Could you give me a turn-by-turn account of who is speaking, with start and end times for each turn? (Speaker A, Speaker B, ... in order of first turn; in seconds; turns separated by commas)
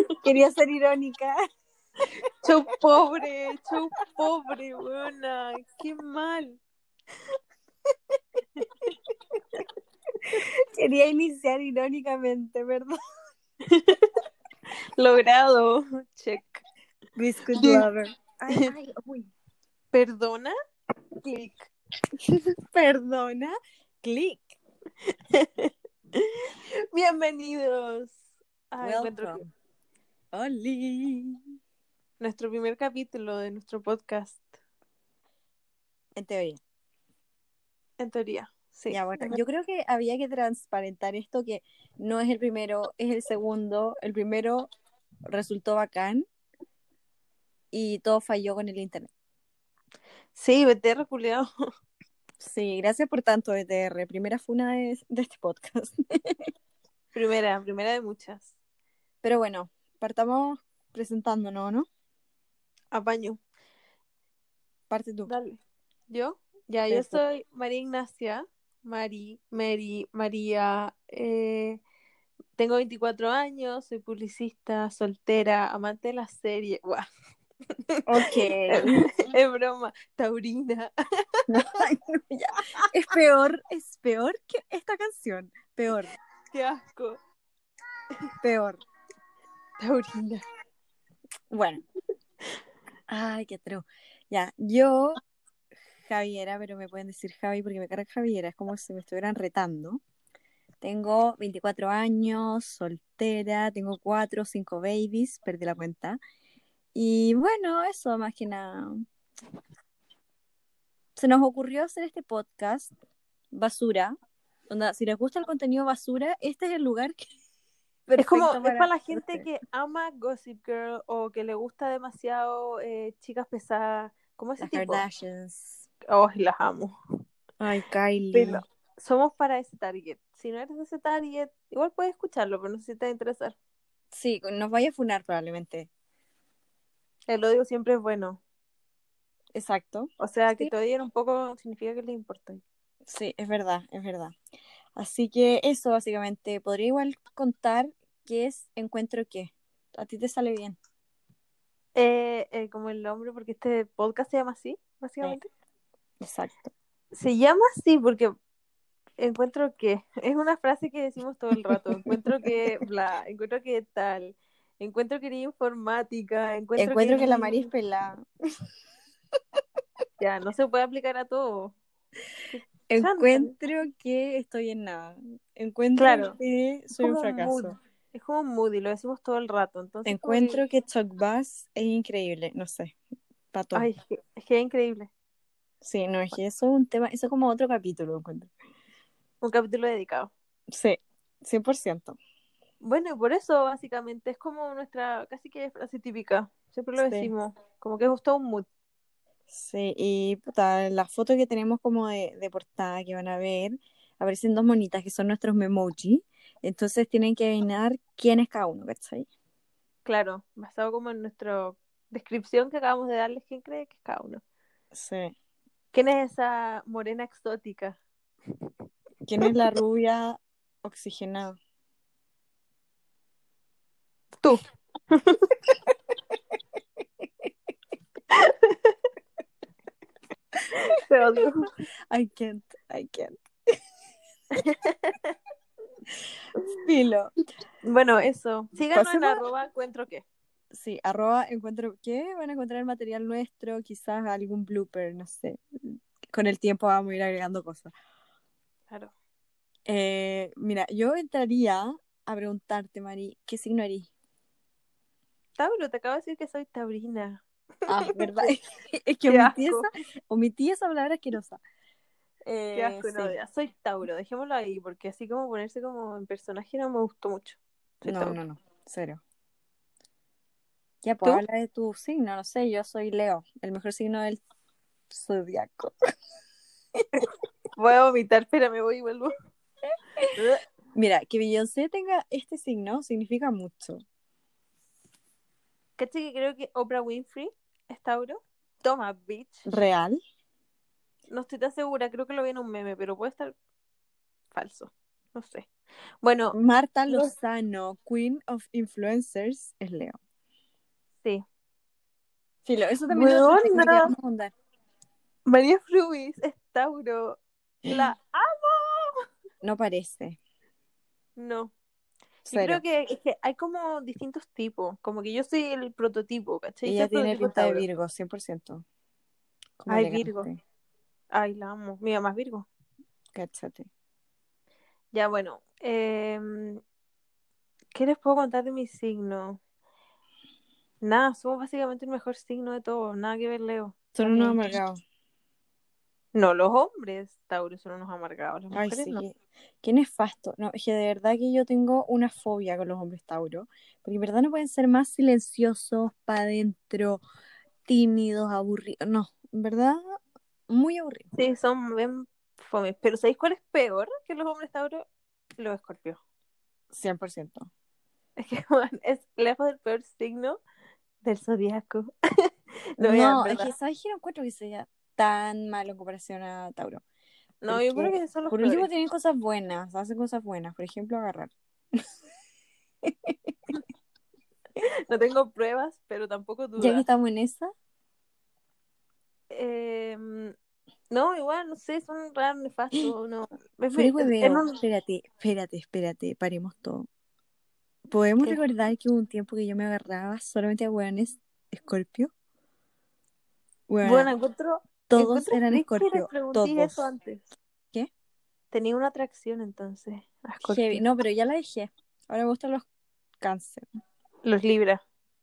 Speaker A: 0.2-1.4, Speaker B: 2.4-6.6, Speaker B: 8.6-8.9, Speaker A: 10.3-13.0, Speaker B: 13.7-14.1, Speaker B: 15.0-16.6, Speaker A: 17.1-19.3, Speaker B: 17.5-17.8, Speaker B: 19.9-20.5, Speaker B: 21.2-21.7, Speaker A: 22.3-24.6, Speaker B: 25.3-29.4, Speaker A: 28.8-29.5, Speaker A: 30.3-31.4, Speaker B: 32.2-34.4, Speaker A: 36.1-36.6, Speaker B: 38.0-39.4, Speaker A: 38.9-44.7, Speaker A: 45.2-46.2, Speaker A: 47.7-49.1, Speaker B: 50.3-51.4, Speaker A: 52.4-56.4, Speaker B: 57.1-58.5, Speaker A: 59.2-61.9, Speaker B: 62.9-63.4, Speaker A: 64.9-65.3, Speaker B: 65.3-71.8, Speaker A: 66.9-67.2, Speaker B: 72.6-77.0, Speaker B: 77.9-81.5, Speaker A: 78.1-79.0, Speaker A: 81.5-86.1, Speaker B: 86.5-87.2, Speaker A: 88.4-88.8, Speaker B: 89.8-90.4, Speaker A: 91.5-91.8, Speaker A: 93.1-95.2, Speaker A: 96.0-100.0, Speaker A: 100.8-106.2, Speaker A: 106.9-109.0, Speaker A: 111.2-112.9, Speaker A: 113.5-114.2, Speaker A: 114.7-117.2, Speaker A: 118.1-119.5, Speaker B: 118.1-125.0, Speaker A: 124.6-125.9, Speaker B: 126.1-126.9, Speaker A: 127.6-128.6, Speaker B: 128.3-133.6, Speaker A: 134.1-135.9, Speaker B: 137.3-138.4, Speaker A: 139.5-140.7, Speaker B: 140.2-142.6, Speaker A: 143.1-144.3, Speaker A: 144.9-150.8, Speaker B: 151.9-155.5, Speaker A: 156.2-156.7, Speaker B: 157.1-158.3, Speaker B: 159.2-167.7, Speaker A: 161.7-162.7, Speaker A: 166.8-168.2, Speaker B: 170.2-171.8, Speaker B: 172.5-173.5, Speaker A: 172.9-177.7, Speaker B: 175.9-176.4, Speaker B: 176.9-180.6, Speaker A: 180.1-182.9, Speaker A: 183.5-183.9, Speaker B: 183.7-185.1, Speaker A: 185.8-188.5, Speaker B: 189.4-190.3, Speaker A: 190.7-192.2, Speaker B: 192.8-198.7, Speaker A: 197.0-197.3, Speaker A: 199.5-209.3, Speaker B: 210.1-214.4, Speaker A: 214.9-215.3, Speaker B: 215.9-218.0, Speaker A: 219.2-221.6, Speaker B: 224.4-225.6, Speaker A: 227.2-227.5, Speaker B: 228.3-228.9, Speaker B: 230.7-231.7, Speaker A: 232.1-233.8, Speaker B: 234.5-235.3, Speaker A: 236.8-237.3, Speaker B: 237.8-240.2, Speaker A: 238.9-239.4, Speaker A: 240.7-247.9, Speaker A: 249.9-254.1, Speaker B: 255.6-258.5, Speaker A: 257.9-261.6, Speaker B: 259.3-259.9, Speaker A: 262.4-263.3, Speaker B: 262.7-268.4, Speaker A: 268.1-269.2, Speaker A: 271.0-274.4, Speaker A: 275.1-275.9, Speaker B: 277.2-279.3, Speaker B: 280.4-280.6, Speaker A: 280.9-284.0, Speaker B: 286.0-289.7, Speaker A: 289.6-290.2, Speaker B: 291.3-293.5, Speaker B: 294.5-295.7, Speaker B: 296.2-296.6, Speaker A: 296.5-300.2, Speaker A: 302.6-304.5, Speaker B: 303.1-304.1, Speaker B: 305.4-309.1, Speaker A: 309.6-310.4, Speaker B: 311.4-311.7, Speaker A: 312.5-312.8, Speaker B: 312.5-317.8, Speaker A: 316.8-318.8, Speaker A: 319.8-320.5, Speaker B: 319.9-320.5, Speaker B: 321.3-322.7, Speaker A: 323.3-323.9, Speaker B: 325.1-326.8, Speaker B: 327.9-329.6, Speaker B: 331.0-334.8, Speaker A: 334.1-335.0, Speaker B: 336.3-339.2, Speaker A: 338.7-347.2, Speaker A: 347.9-350.2, Speaker A: 350.7-351.3, Speaker B: 351.3-355.0, Speaker B: 355.6-356.2, Speaker A: 356.9-357.7, Speaker B: 358.4-360.6, Speaker B: 361.2-362.1, Speaker B: 363.0-363.7, Speaker A: 363.0-367.0, Speaker B: 367.6-368.9, Speaker A: 367.7-372.0, Speaker A: 373.0-373.5, Speaker B: 374.8-377.0, Speaker A: 376.8-377.7, Speaker B: 379.5-380.5, Speaker B: 381.1-384.7, Speaker A: 383.9-387.1, Speaker A: 388.1-392.3, Speaker A: 393.9-394.3, Speaker B: 394.0-397.5, Speaker A: 395.1-397.0, Speaker B: 398.7-401.0, Speaker A: 400.6-402.9, Speaker A: 403.4-403.8, Speaker B: 404.4-405.0